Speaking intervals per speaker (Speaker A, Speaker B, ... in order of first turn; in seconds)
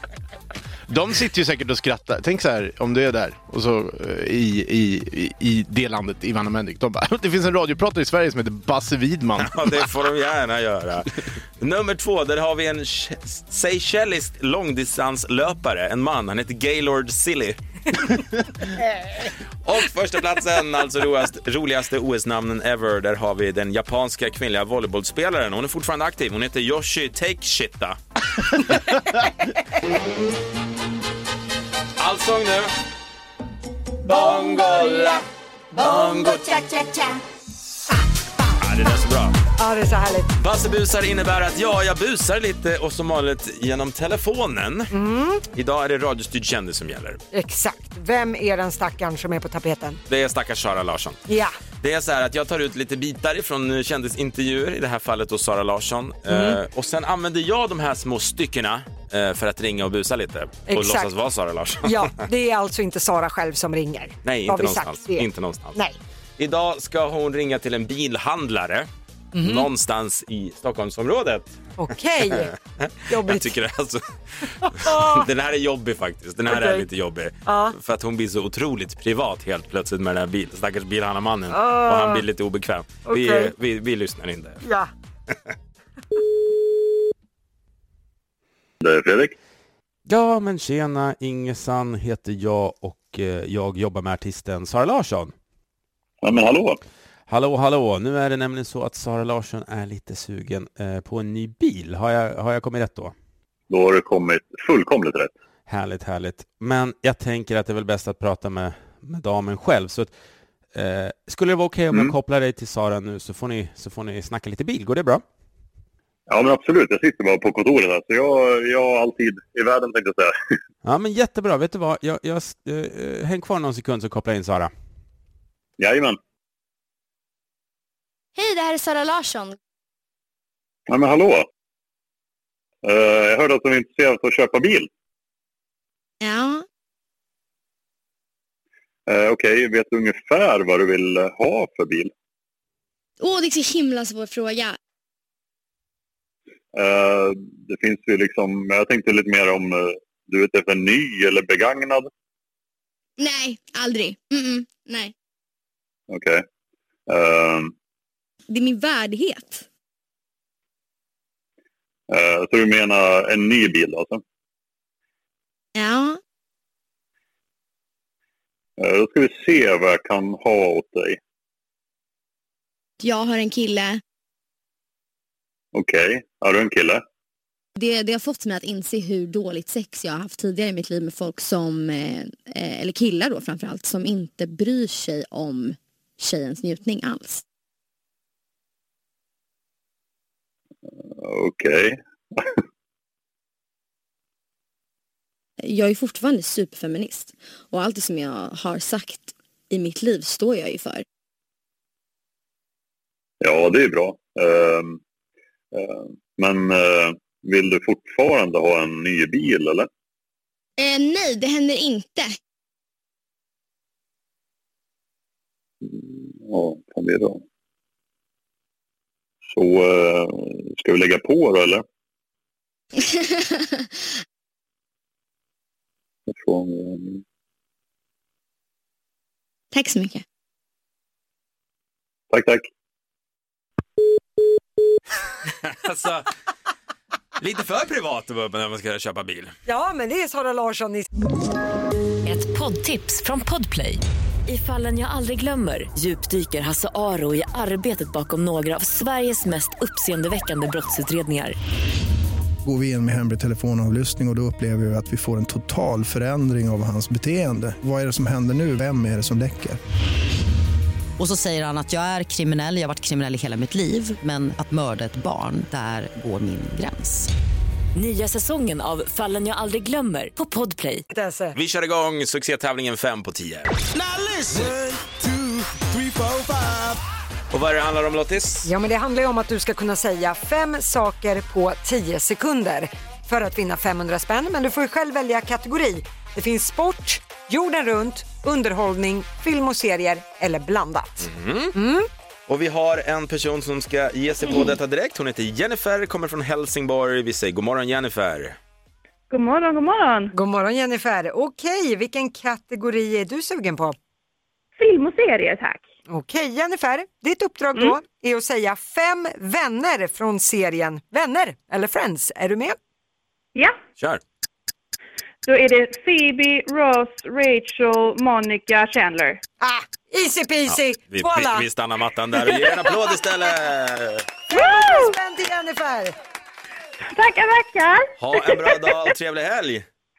Speaker A: 0.9-9.8
Speaker B: 9.4-17.6, 19.6-28.0, 32.0-32.7, 34.0-35.2, 35.8-36.6, 38.6-39.4, 40.4-44.9, 45.5-47.2, 50.1-51.2, 51.8-62.1, 64.2-65.8, 66.4-68.9, 69.4-71.5, 72.3-84.6, 90.1-95.3, 97.3-103.1, 105.7-110.1, 110.7-115.2, 120.8-124.7, 235.6-236.3, 237.4-239.5, 271.5-273.7, 277.5-278.7, 291.2-291.7, 292.5-298.6, 314.0-314.2, 320.7-324.2, 328.2-329.9
Speaker C: 39.6-40.3, 44.9-45.4, 47.3-50.0, 51.3-51.5, 56.3-56.6, 60.7-61.1, 61.8-66.0, 69.3-69.7, 71.8-72.5, 73.1-73.6, 74.6-75.2, 76.5-76.9, 77.5-77.8, 81.5-82.2, 83.0-83.5, 84.6-84.9, 239.7-241.1, 271.1-271.6, 278.6-292.1, 300.3-304.0, 306.1-312.8, 319.6-321.6, 324.5-326.1
Speaker D: 88.8-89.3, 96.2-96.8, 103.7-105.3, 116.3-120.3, 125.8-126.2, 130.9-131.5, 132.8-134.9, 139.1-142.1, 146.7-152.1, 156.1-156.4, 157.1-157.7, 162.1-164.2, 168.8-171.2, 175.7-177.0, 191.0-192.4, 203.4-205.0, 205.7-209.9, 215.8-217.4, 219.5-221.8, 226.3-227.2, 232.3-232.6
Speaker E: 128.4-129.5, 136.2-136.6, 143.2-144.8, 153.2-155.1, 158.5-159.6, 165.8-166.2, 173.0-174.0, 177.8-187.4, 195.6-201.0, 210.8-212.3, 229.7-230.2
Speaker F: 242.2-251.6, 267.9-271.0
Speaker G: 252.6-259.8
Speaker H: 261.2-267.3
Speaker I: 299.3-300.3, 304.8-305.9, 315.4-319.4, 324.5-325.1, 327.1-328.8